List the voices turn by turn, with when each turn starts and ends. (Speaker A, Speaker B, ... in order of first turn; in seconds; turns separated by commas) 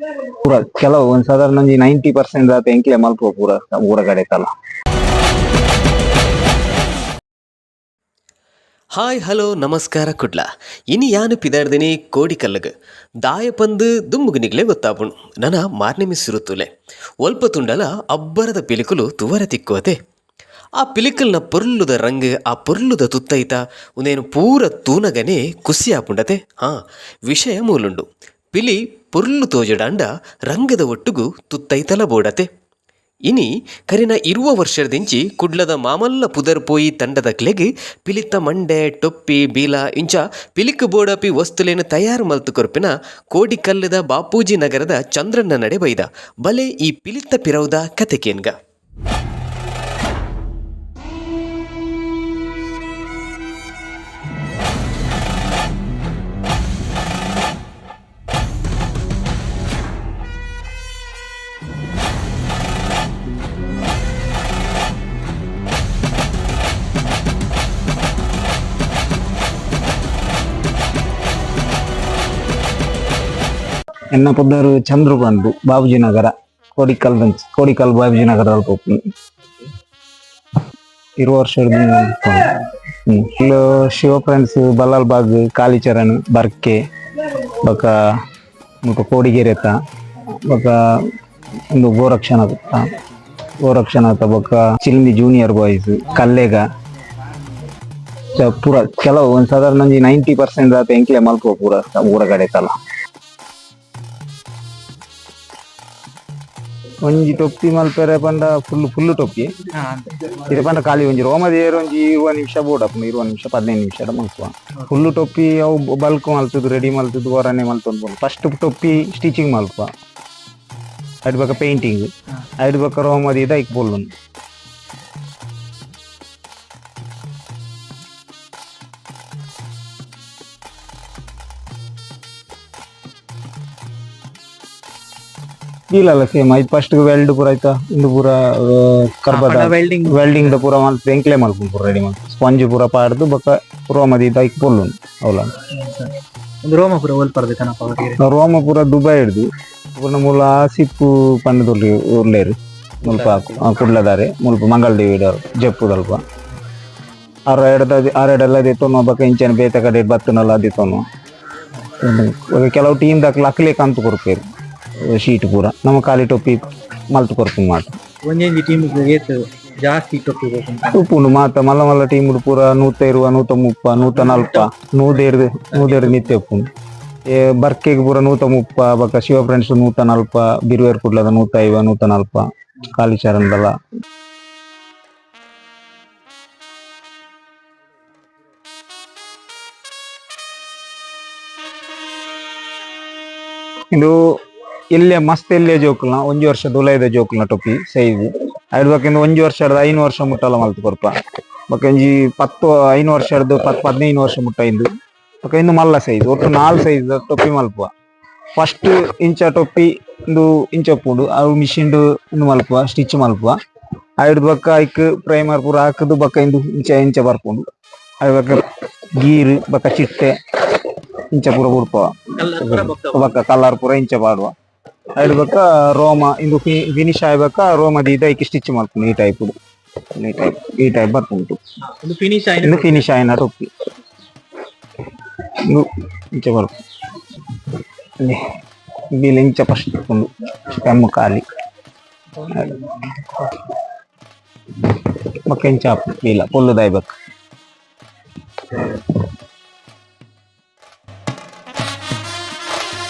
Speaker A: 0.4-4.5, Speaker B: 8.9-12.7, Speaker B: 13.2-16.7, Speaker B: 17.2-20.0, Speaker B: 20.8-32.5, Speaker B: 33.3-48.5, Speaker A: 74.1-79.0, Speaker A: 81.2-87.9, Speaker A: 88.8-89.8, Speaker A: 90.5-91.1, Speaker A: 91.7-92.9, Speaker A: 93.6-96.6, Speaker A: 98.3-102.7, Speaker A: 107.0-109.5, Speaker C: 109.8-110.5, Speaker A: 110.5-119.9, Speaker A: 121.2-124.1, Speaker A: 135.9-145.5, Speaker C: 139.3-140.4, Speaker C: 145.7-148.2, Speaker A: 148.2-156.2, Speaker C: 153.1-153.6, Speaker A: 157.5-161.0, Speaker A: 162.0-164.4, Speaker A: 165.1-168.0, Speaker C: 168.3-171.0, Speaker A: 170.9-176.7, Speaker C: 174.1-174.7, Speaker C: 175.7-176.1, Speaker A: 177.3-183.7, Speaker A: 193.9-194.2, Speaker A: 194.9-201.1, Speaker A: 201.7-204.9, Speaker A: 205.4-207.9, Speaker A: 208.6-213.6, Speaker A: 214.2-217.7, Speaker A: 218.2-218.7, Speaker A: 219.2-224.5, Speaker C: 222.4-223.3, Speaker A: 225.2-229.5, Speaker A: 230.2-231.6, Speaker C: 232.0-233.1, Speaker A: 232.6-233.7, Speaker A: 235.7-236.7, Speaker A: 238.2-238.5, Speaker A: 239.1-241.4, Speaker C: 242.4-242.8, Speaker A: 242.5-243.7, Speaker A: 244.8-247.1, Speaker A: 249.0-249.2